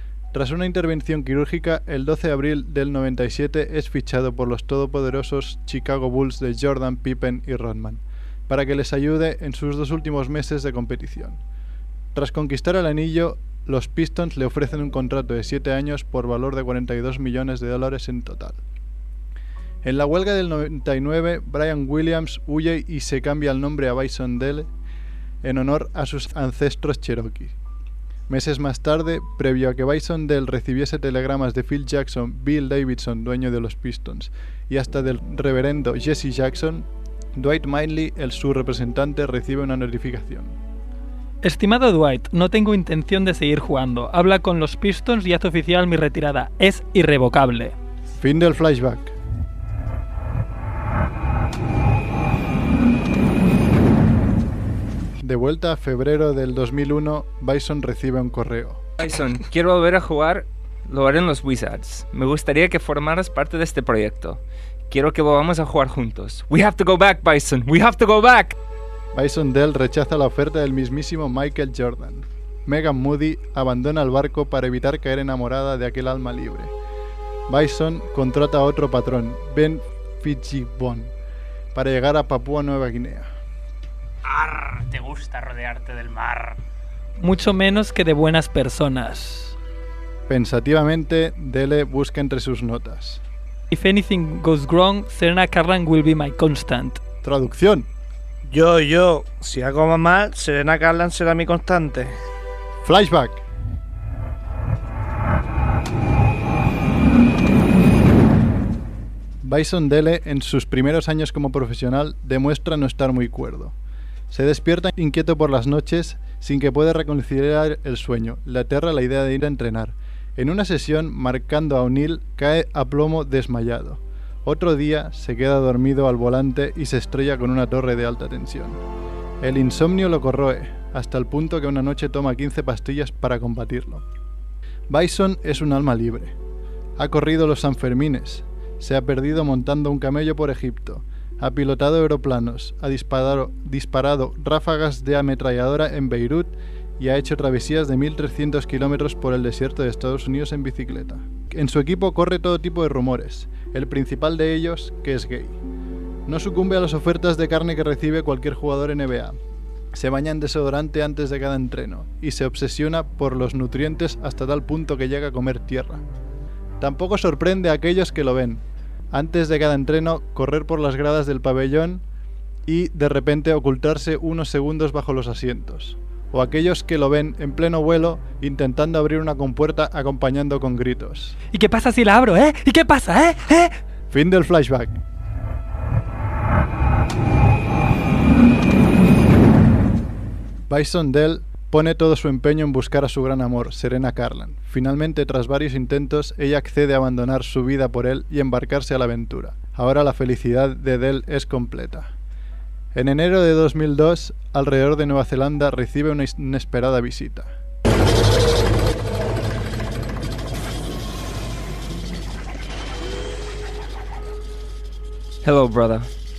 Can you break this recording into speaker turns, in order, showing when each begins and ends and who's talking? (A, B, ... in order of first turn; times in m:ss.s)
0:00.3-0:11.4 A
0:12.1-0:18.6 A
0:19.8-0:24.7 A
0:25.4-0:27.5 A
0:28.3-0:40.6 A
0:41.4-0:47.8 B
0:48.2-0:49.1 A
0:55.2-0:58.8 A
0:59.0-1:08.6 C
1:09.1-1:16.7 A
1:17.5-1:21.1 A
1:21.7-1:23.3 A
1:24.2-1:26.6 D
1:27.2-1:29.6 B
1:30.3-1:33.2 A
1:33.7-1:37.0 B
1:37.2-1:37.9 A
1:38.4-1:42.1 E
1:42.8-1:43.4 A
1:49.4-1:53.7 A
1:54.3-2:08.8 A
2:09.4-2:14.0 A
2:14.9-2:16.4 A
2:17.0-2:35.6 A
2:36.2-2:39.4 A
2:39.9-2:46.0 A
2:46.8-2:52.0 A
2:52.6-3:01.4 A
3:01.5-3:03.8 B
3:04.1-3:05.0 A
3:10.7-3:22.1 A
3:22.9-3:27.5 A
3:35.4-3:36.1 C